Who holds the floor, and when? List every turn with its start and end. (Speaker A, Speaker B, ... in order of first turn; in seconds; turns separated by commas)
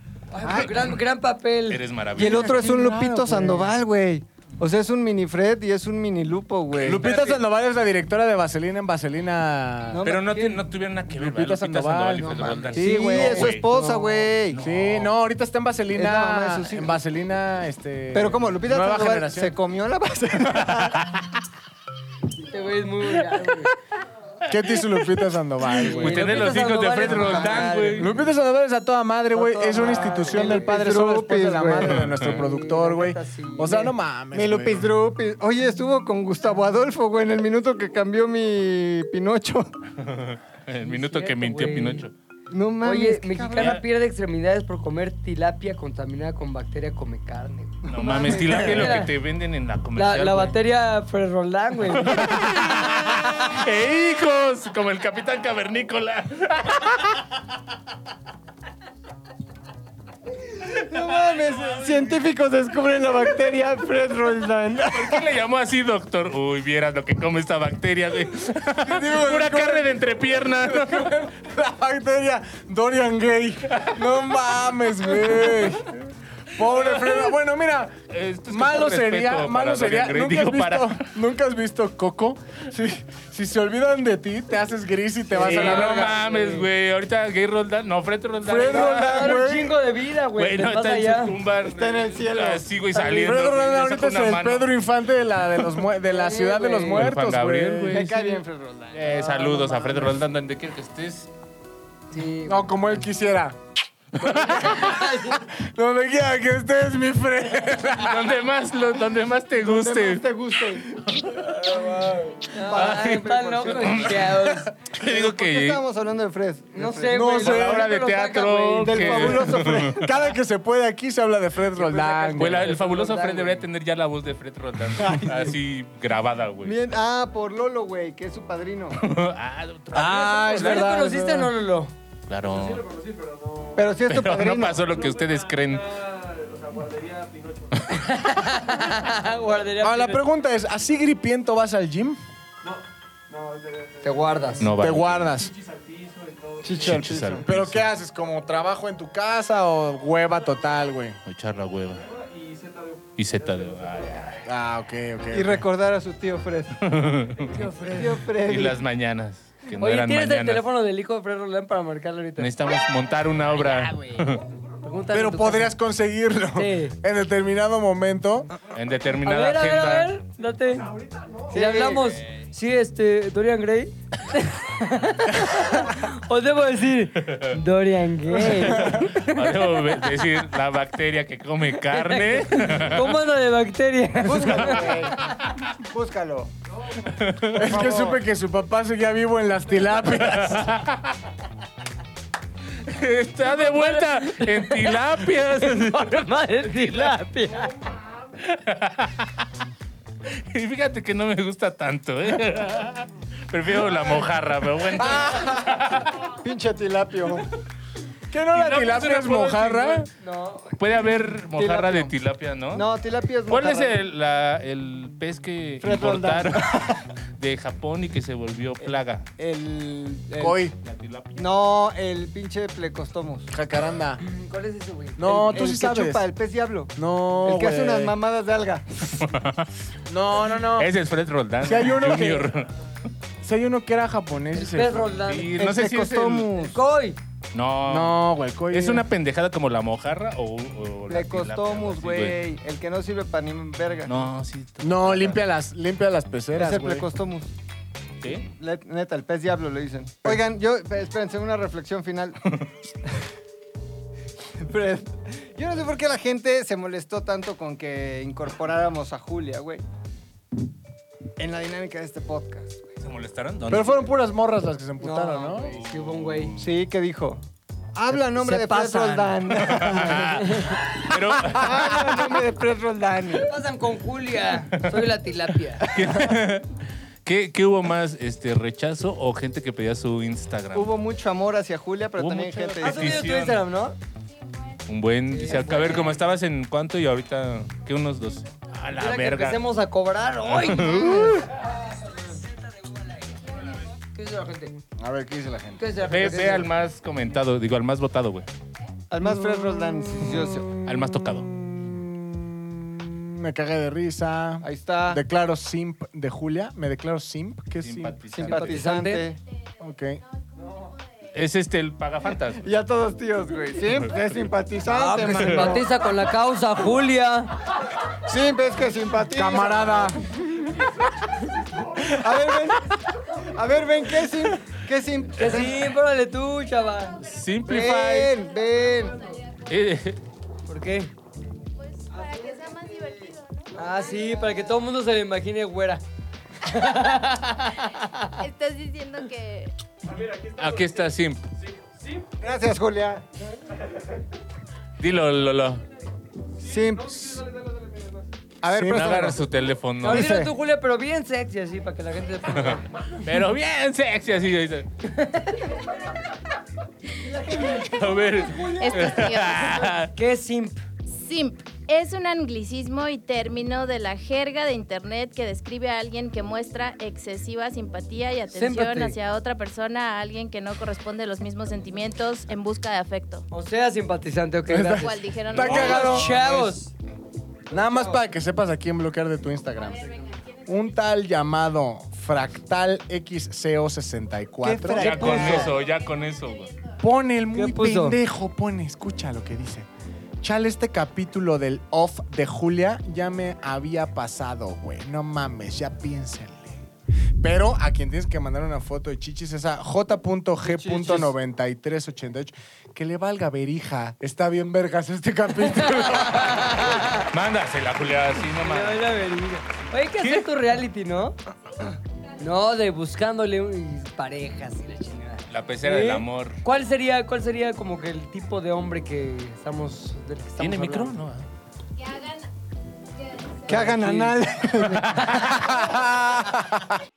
Speaker A: 0.3-1.8, Speaker B: 0.5-0.7, Speaker C: 1.7-2.6, Speaker D: 2.2-3.7, Speaker B: 2.2-7.1, Speaker D: 6.8-10.1, Speaker C: 7.0-7.4, Speaker B: 9.9-10.3, Speaker C: 10.1-13.7, Speaker A: 10.3-10.6, Speaker D: 11.1-13.6, Speaker B: 12.2-14.6, Speaker A: 12.8-14.1, Speaker C: 14.5-15.1, Speaker D: 14.6-19.5, Speaker B: 15.9-17.0, Speaker B: 18.1-21.1, Speaker C: 20.8-21.0, Speaker A: 22.4-23.8, Speaker C: 23.3-23.7, Speaker D: 24.5-26.2, Speaker C: 24.8-25.2, Speaker A: 25.7-28.1, Speaker C: 25.9-28.1, Speaker B: 27.0-27.8, Speaker D: 28.0-34.9, Speaker B: 29.4-32.2, Speaker A: 29.4-30.9, Speaker C: 31.9-32.4, Speaker A: 32.2-34.0, Speaker B: 34.3-39.8, Speaker C: 40.0-42.1, Speaker A: 40.8-42.1, Speaker B: 42.5-43.8, Speaker A: 42.8-49.1, Speaker B: 47.9-49.0, Speaker C: 47.9-50.6, Speaker A: 50.0-52.8, Speaker C: 51.9-57.2, Speaker B: 60.5-65.3, Speaker C: 64.8-71.2, Speaker D: 68.8-76.0, Speaker C: 73.7-74.5, Speaker D: 76.5-86.2, Speaker C: 76.6-77.3, Speaker C: 78.1-81.0, Speaker A: 85.3-86.7, Speaker C: 85.4-89.4, Speaker D: 88.5-89.8, Speaker B: 88.6-89.4, Speaker A: 88.7-91.3, Speaker C: 90.4-94.7, Speaker B: 91.6-92.6, Speaker A: 92.9-93.2, Speaker D: 93.0-98.0, Speaker A: 96.0-97.1, Speaker C: 96.9-101.3, Speaker B: 97.9-100.2, Speaker A: 102.1-103.0, Speaker D: 102.4-103.6, Speaker A: 104.2-105.4, Speaker D: 104.3-108.3, Speaker C: 108.0-110.2, Speaker B: 109.6-114.2, Speaker A: 112.5-114.7, Speaker C: 112.6-115.8, Speaker B: 115.0-117.4, Speaker A: 116.7-119.4, Speaker D: 117.1-117.9, Speaker C: 117.4-120.1, Speaker B: 118.8-120.2, Speaker D: 119.9-122.7, Speaker A: 121.8-123.7, Speaker B: 122.3-122.6, Speaker C: 122.4-126.8, Speaker B: 124.9-125.6, Speaker B: 126.6-129.0, Speaker C: 129.0-131.0, Speaker D: 129.9-131.5, Speaker A: 130.0-131.9, Speaker C: 132.3-133.1, Speaker B: 133.7-134.8, Speaker C: 134.1-136.1, Speaker A: 137.9-140.2, Speaker D: 139.8-142.2, Speaker A: 144.0-144.7, Speaker C: 144.6-145.2, Speaker D: 144.8-145.6, Speaker B: 146.6-147.4, Speaker C: 146.8-147.9, Speaker D: 147.4-151.2, Speaker C: 151.3-152.1, Speaker C: 153.2-154.5, Speaker D: 154.4-155.7, Speaker B: 155.3-156.8, Speaker C: 156.8-157.5, Speaker A: 157.5-158.2, Speaker B: 157.9-158.8, Speaker C: 158.4-160.6, Speaker A: 159.8-162.5, Speaker C: 162.4-164.4, Speaker A: 163.6-164.3, Speaker A: 164.8-165.8, Speaker D: 165.1-168.5, Speaker A: 166.6-166.9, Speaker C: 168.8-170.2, Speaker A: 169.2-170.9, Speaker B: 171.5-172.3, Speaker A: 171.5-179.4, Speaker C: 177.2-177.6, Speaker C: 178.4-183.1, Speaker D: 178.9-179.1, Speaker A: 181.8-184.9, Speaker B: 184.2-185.3, Speaker B: 185.8-186.5, Speaker C: 187.0-187.7, Speaker B: 187.6-188.2, Speaker D: 187.6-190.7, Speaker C: 190.1-191.2, Speaker C: 192.8-197.2, Speaker A: 193.4-197.8, Speaker C: 198.4-199.4, Speaker C: 200.3-206.2, Speaker D: 205.0-206.0, Speaker B: 206.4-207.5, Speaker D: 208.3-210.1, Speaker C: 208.5-210.1, Speaker A: 210.2-210.8, Speaker C: 210.8-212.9, Speaker B: 211.5-212.1, Speaker B: 212.7-213.9, Speaker C: 213.5-219.3, Speaker B: 215.8-217.0, Speaker B: 218.9-220.7, Speaker D: 220.4-220.8, Speaker C: 220.8-221.6, Speaker B: 221.4-223.5, Speaker D: 223.5-224.2, Speaker A: 224.2-225.2, Speaker D: 225.2-226.3, Speaker B: 225.2-229.2, Speaker D: 227.0-228.2, Speaker C: 229.1-229.7, Speaker D: 230.1-230.9, Speaker C: 230.8-232.7, Speaker D: 231.6-232.5, Speaker D: 233.4-235.1, Speaker A: 234.5-235.6, Speaker C: 235.3-236.5, Speaker B: 235.6-236.8, Speaker A: 236.5-237.2, Speaker C: 237.5-242.4, Speaker D: 237.9-239.1, Speaker B: 241.1-244.3, Speaker C: 244.1-245.4, Speaker D: 244.8-247.1, Speaker B: 246.6-247.5, Speaker C: 248.2-248.5, Speaker B: 248.4-252.4, Speaker B: 254.6-259.8, Speaker B: 261.4-262.9, Speaker C: 263.0-264.1, Speaker D: 263.7-265.8, Speaker A: 265.0-266.5, Speaker C: 265.8-266.7, Speaker B: 266.6-267.4, Speaker B: 267.9-270.5, Speaker A: 268.1-270.9, Speaker C: 269.5-272.4, Speaker B: 271.4-273.5, Speaker A: 273.3-275.9, Speaker C: 274.7-275.1, Speaker C: 275.8-280.9, Speaker B: 280.7-283.2, Speaker C: 282.2-283.6, Speaker A: 282.8-284.0, Speaker C: 284.9-289.6, Speaker A: 285.3-286.2, Speaker A: 288.9-294.8, Speaker C: 290.4-291.4, Speaker D: 295.0-296.2, Speaker A: 295.8-296.7, Speaker C: 296.0-298.5, Speaker B: 299.1-300.7, Speaker C: 300.9-301.5, Speaker D: 301.7-308.4, Speaker B: 304.6-305.2, Speaker C: 307.8-308.9, Speaker B: 308.3-309.4, Speaker A: 308.5-309.3, Speaker D: 309.8-310.2, Speaker C: 311.3-312.7, Speaker B: 312.6-315.9, Speaker A: 314.9-317.5, Speaker B: 318.3-320.6, Speaker D: 319.3-320.2, Speaker B: 322.0-322.9, Speaker B: 323.5-325.9, Speaker A: 325.4-327.2, Speaker C: 327.2-328.3, Speaker B: 327.7-329.3, Speaker C: 329.7-330.2, Speaker A: 330.7-331.1, Speaker E: 331.8-333.7, Speaker A: 333.7-336.0, Speaker A: 336.6-338.3, Speaker E: 338.4-339.7, Speaker C: 340.2-341.5, Speaker B: 342.4-343.2, Speaker C: 345.0-345.8, Speaker B: 346.6-347.5, Speaker B: 348.6-349.4, Speaker D: 348.7-349.2, Speaker C: 348.8-350.4, Speaker A: 350.0-352.9, Speaker B: 350.1-350.5, Speaker C: 352.5-354.9, Speaker A: 355.0-355.8, Speaker A: 357.2-358.8, Speaker C: 357.6-360.1, Speaker E: 358.7-359.9, Speaker A: 360.1-360.8, Speaker E: 361.1-373.4, Speaker A: 368.5-369.2, Speaker A: 373.5-376.9, Speaker D: 374.7-376.8, Speaker E: 375.0-376.3, Speaker C: 375.5-376.2, Speaker D: 377.7-380.1, Speaker E: 380.0-380.6, Speaker D: 380.7-385.5, Speaker B: 384.6-385.8, Speaker A: 384.9-385.7, Speaker C: 385.0-386.7, Speaker D: 387.0-389.9, Speaker A: 387.5-388.2, Speaker D: 390.4-396.8, Speaker D: 397.4-406.9, Speaker B: 400.7-401.3, Speaker A: 405.9-407.3, Speaker C: 406.6-409.0, Speaker A: 408.6-411.4, Speaker C: 410.2-410.5, Speaker A: 412.4-421.2, Speaker C: 415.5-416.6, Speaker C: 420.6-421.5, Speaker E: 422.1-422.4, Speaker A: 423.7-424.4, Speaker B: 423.7-425.6, Speaker A: 425.1-425.5, Speaker D: 425.5-426.9